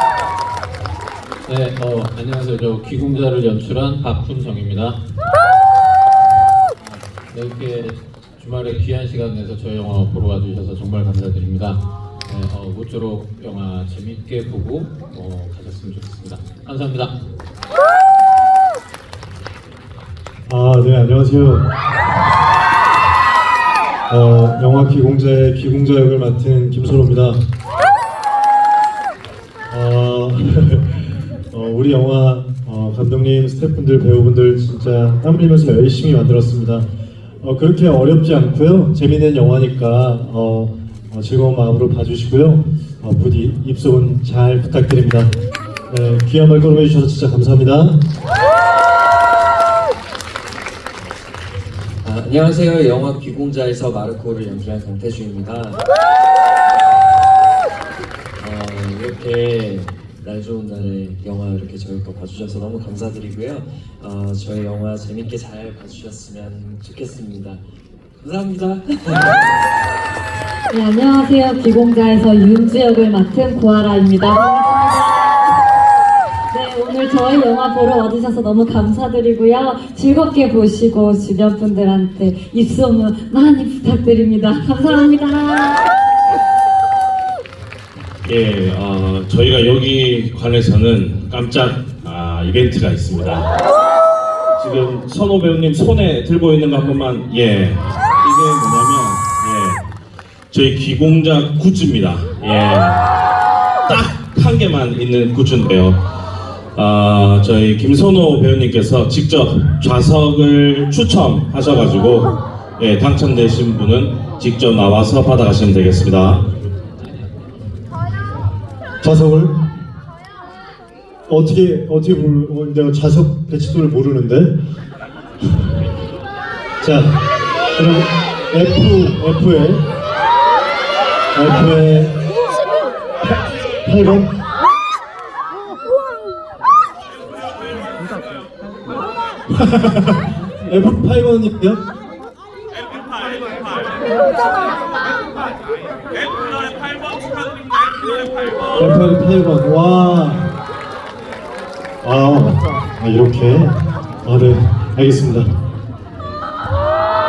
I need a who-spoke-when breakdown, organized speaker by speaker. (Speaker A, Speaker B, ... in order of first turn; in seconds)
Speaker A: 1.5-5.0, 6.8-17.1, 117.0-117.5
Speaker B: 20.5-21.7, 24.1-27.4, 29.7-36.9, 37.4-45.3, 45.9-48.0, 119.0-119.5, 121.3-124.5, 126.8-127.2, 127.8-129.8, 131.3-132.2, 133.2-134.3, 139.5-141.8, 148.7-150.5, 152.0-155.5
Speaker C: 52.0-55.8, 58.4-67.6, 68.2-69.4
Speaker D: 70.7-75.5, 76.5-85.8
Speaker E: 88.2-93.5, 94.6-99.8, 100.5-103.0, 103.8-106.0, 106.7-116.4